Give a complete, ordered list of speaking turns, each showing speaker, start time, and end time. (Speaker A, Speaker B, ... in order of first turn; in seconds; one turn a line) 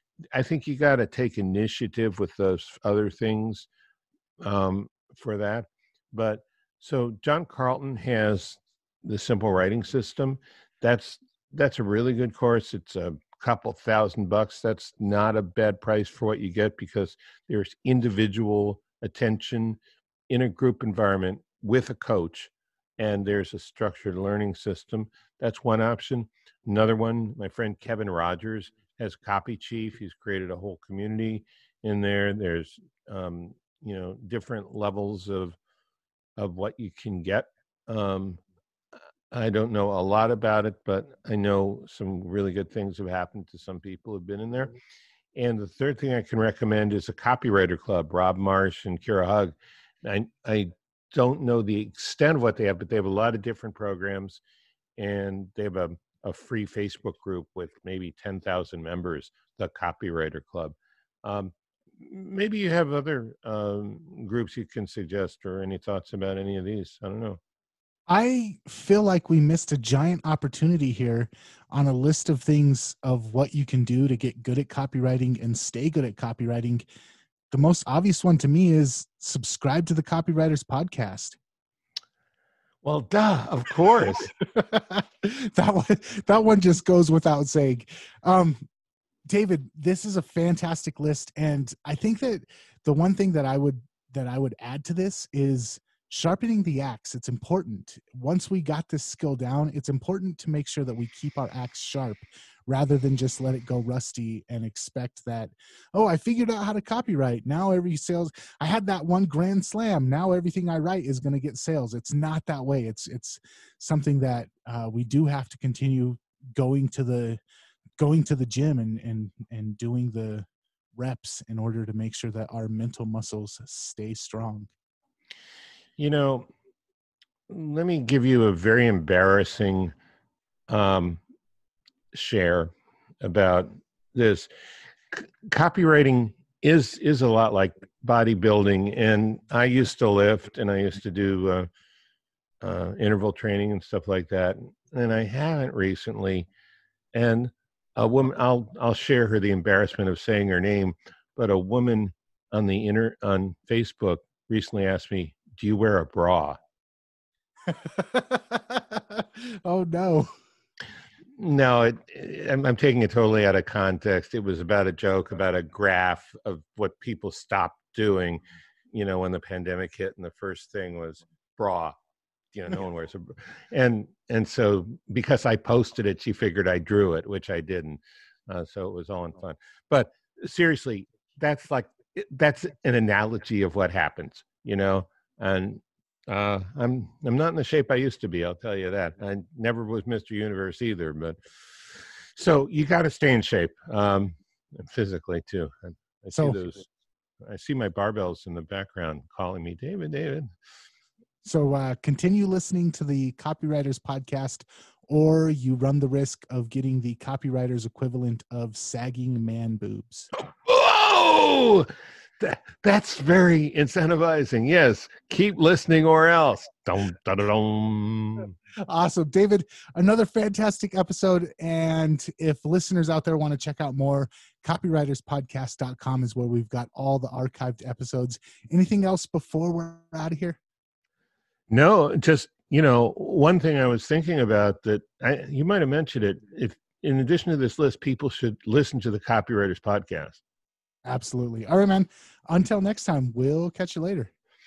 Speaker A: 0.3-3.7
Speaker A: 4.4-35.6
Speaker A: 36.4-38.4
Speaker A: 39.3-44.7
Speaker A: 45.3-54.4
Speaker A: 55.0-67.4
Speaker B: 68.1-76.8
Speaker B: 77.5-81.4
Speaker A: 82.8-84.3
Speaker B: 84.4-88.6
Speaker B: 89.3-117.4
Speaker B: 118.0-124.7
Speaker A: 126.0-126.5
Speaker A: 127.5-129.9
Speaker A: 130.7-131.2
Speaker A: 132.1-134.5
Speaker A: 135.1-141.7
Speaker A: 142.6-146.5
Speaker A: 147.1-156.6
Speaker B: 157.7-160.3
Speaker A: 161.4-172.0
Speaker A: 172.5-196.9
Speaker A: 197.4-200.5
Speaker B: 201.4-210.3
Speaker A: 210.5-218.6
Speaker B: 218.8-230.6
Speaker A: 231.7-240.4
Speaker B: 241.0-244.3